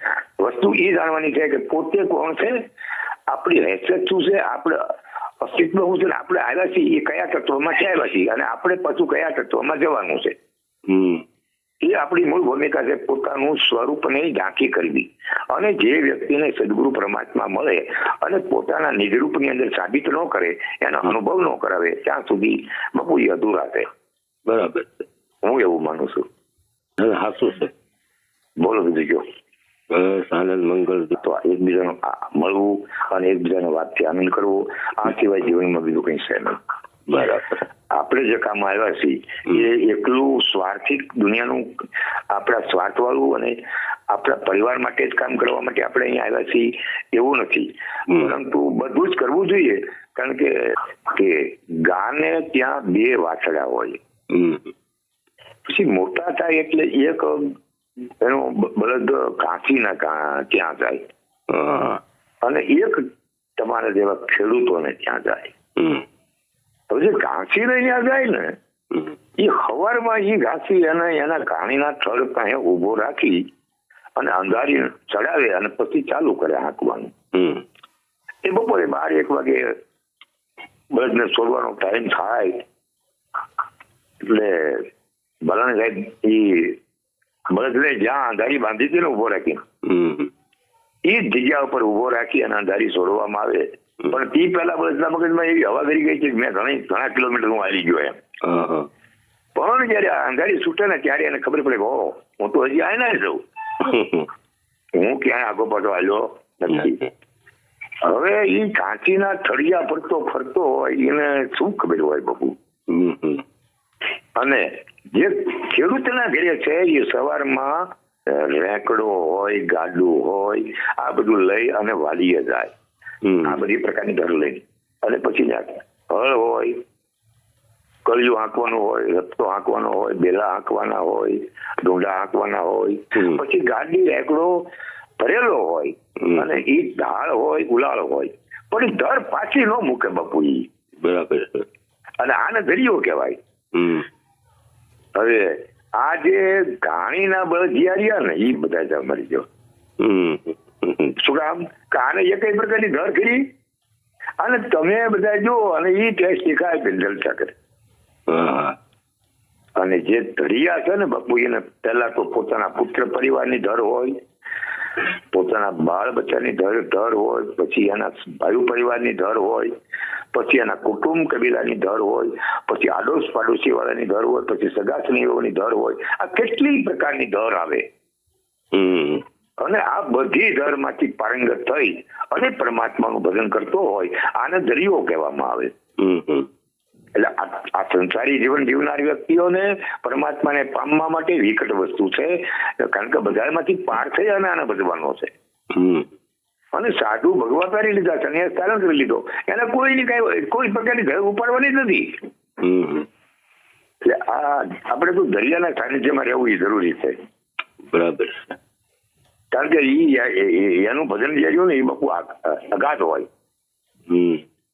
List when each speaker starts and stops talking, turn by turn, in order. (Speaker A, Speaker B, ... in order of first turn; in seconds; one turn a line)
Speaker A: 0.4-2.6
Speaker A: 3.3-4.8
Speaker A: 5.4-10.3
Speaker B: 10.9-11.2
Speaker A: 11.8-23.9
Speaker B: 24.5-25.1
Speaker A: 25.4-26.2
Speaker B: 27.0-27.7
Speaker A: 28.6-29.2
Speaker B: 29.9-31.2
Speaker A: 31.2-36.6
Speaker B: 37.1-37.6
Speaker A: 37.9-41.7
Speaker A: 42.3-43.6
Speaker A: 44.1-54.0
Speaker B: 48.1-48.3
Speaker B: 54.3-54.7
Speaker A: 55.7-57.5
Speaker A: 58.2-61.0
Speaker B: 61.5-62.0
Speaker A: 62.4-63.0
Speaker A: 63.6-65.5
Speaker B: 65.8-66.0
Speaker A: 66.9-68.5
Speaker A: 69.4-73.4
Speaker A: 74.2-77.1
Speaker B: 77.3-77.6
Speaker A: 78.4-79.7
Speaker A: 80.9-82.6
Speaker A: 84.2-84.9
Speaker A: 85.4-86.8
Speaker A: 87.5-89.6
Speaker B: 89.8-90.3
Speaker A: 91.0-98.2
Speaker B: 98.4-98.9
Speaker A: 99.5-103.4
Speaker B: 103.8-104.3
Speaker A: 105.0-107.0
Speaker B: 106.7-107.0
Speaker A: 108.0-112.5
Speaker B: 112.9-113.4
Speaker A: 114.4-122.7
Speaker B: 123.2-123.6
Speaker A: 123.4-126.8
Speaker A: 128.1-134.6
Speaker A: 135.2-140.7
Speaker B: 141.0-141.7
Speaker A: 142.2-143.4
Speaker B: 143.7-144.1
Speaker A: 145.1-149.4
Speaker B: 150.0-151.1
Speaker A: 151.2-153.4
Speaker A: 154.4-157.5
Speaker B: 158.3-158.8
Speaker A: 159.8-164.1
Speaker A: 165.3-169.7
Speaker A: 170.3-177.8
Speaker B: 178.7-179.2
Speaker A: 179.6-185.7
Speaker B: 186.0-186.5
Speaker A: 187.2-195.3
Speaker B: 195.7-196.1
Speaker A: 196.7-202.1
Speaker B: 202.6-203.1
Speaker A: 204.0-207.2
Speaker B: 207.9-208.5
Speaker A: 209.5-213.3
Speaker B: 214.1-214.4